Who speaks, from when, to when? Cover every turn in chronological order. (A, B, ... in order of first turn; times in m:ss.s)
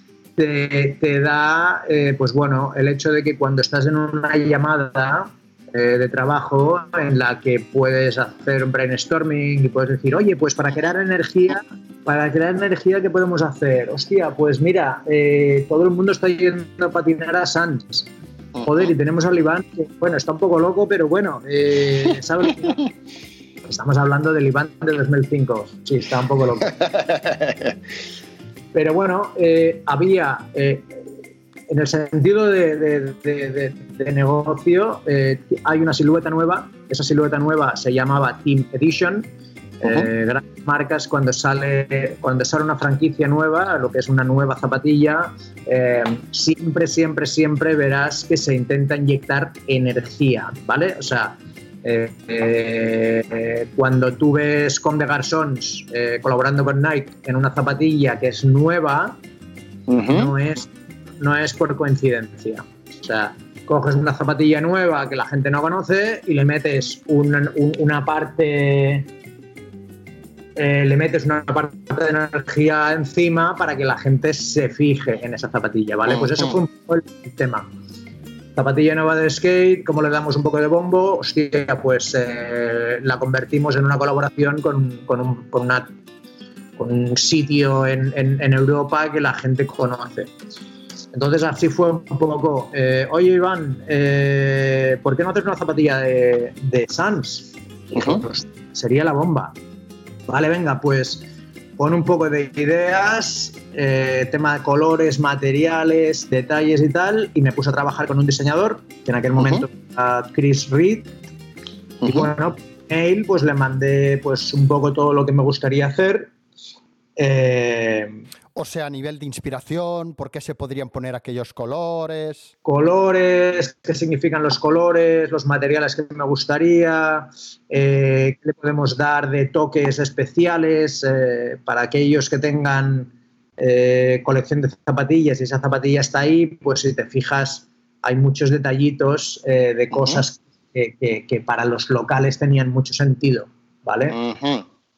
0:00.4-0:22.8 A
0:23.6-0:26.8 A
0:26.7-0:27.8 B
0:28.7-0:31.0 A
0:31.7-0:39.3 A
0:39.8-0:59.2 A
0:59.9-1:00.3 B
1:00.0-1:09.1 A
1:10.6-1:17.7 A
1:16.1-1:16.6 B
1:18.6-1:25.9 A
1:26.8-1:30.3 A
1:31.1-1:39.5 A
1:38.0-1:38.2 B
1:40.3-1:51.1 A
1:52.0-1:52.3 B
1:52.0-1:56.3 A
1:57.2-1:58.2 A
1:58.6-2:02.5 B
2:02.6-2:24.2 A
2:19.9-2:20.2 B
2:24.1-2:24.7 B